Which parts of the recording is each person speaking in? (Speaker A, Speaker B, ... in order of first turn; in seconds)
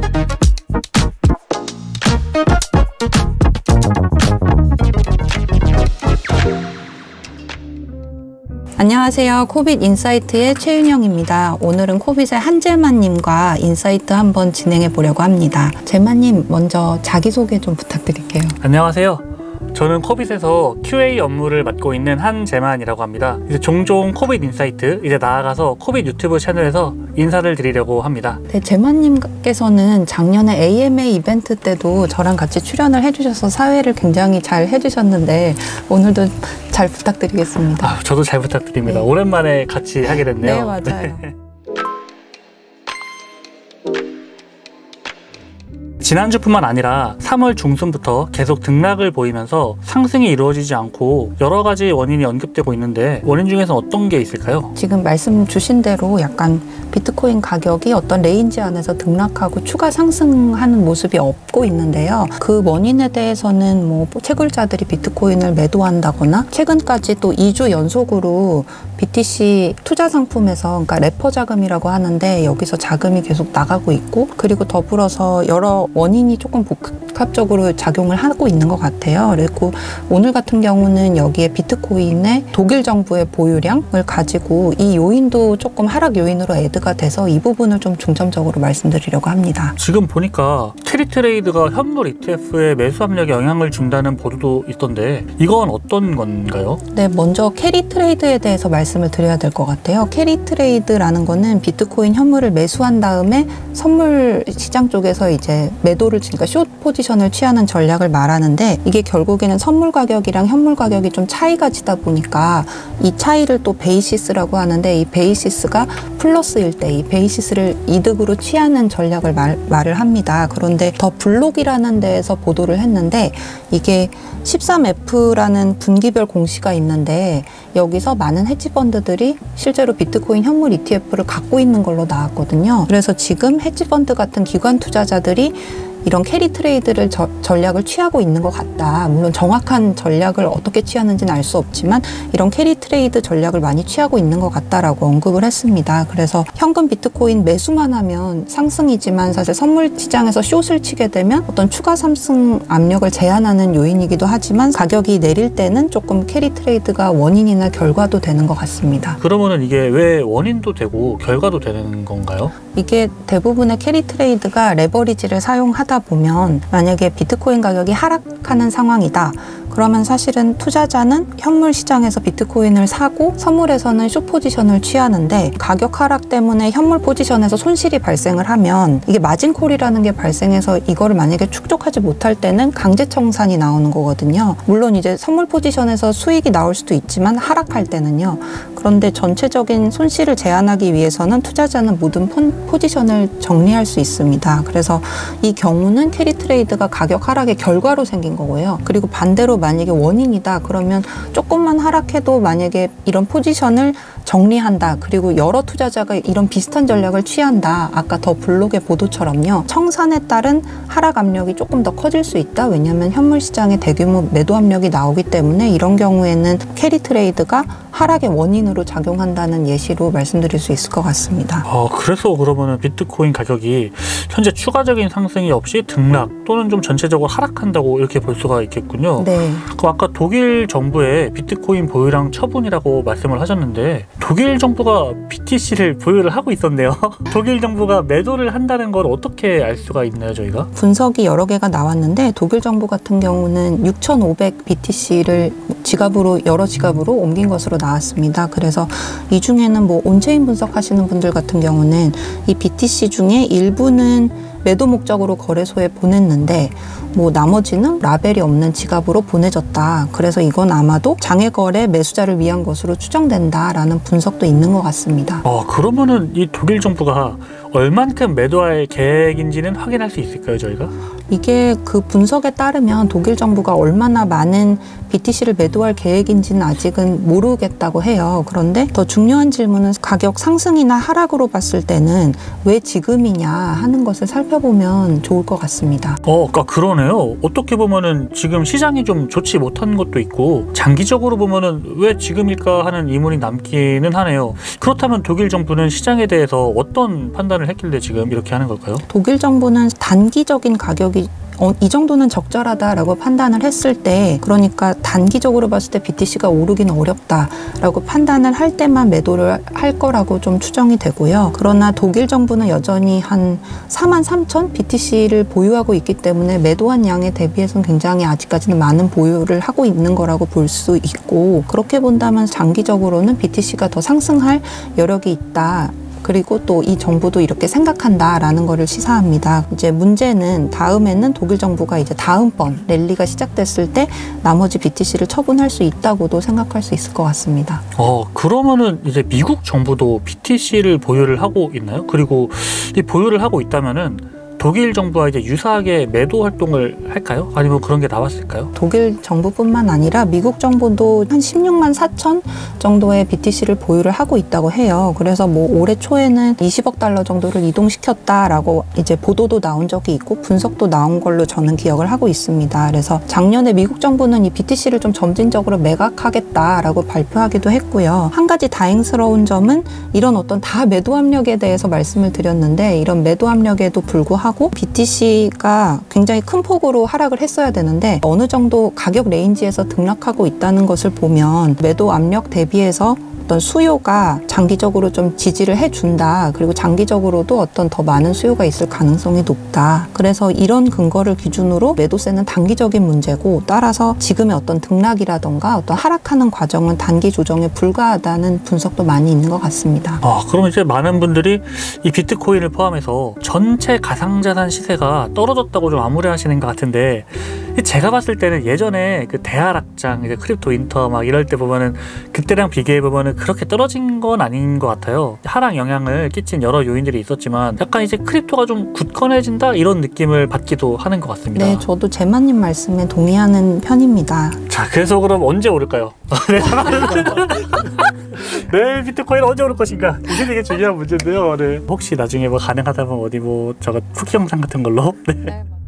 Speaker A: 8.8-18.6, 28.5-38.0, 40.2-41.2, 54.7-89.8, 96.9-159.2, 162.7-221.7, 229.2-229.7, 240.7-265.4, 271.3-286.2, 299.1-337.8, 348.7-400.2, 421.5-424.6
Speaker B: 18.6-28.4, 37.8-41.3, 46.0-54.7, 89.8-96.8, 159.2-162.5, 221.6-240.7, 265.4-270.9, 286.2-299.1, 337.9-348.7, 400.2-421.8, 424.7-435.6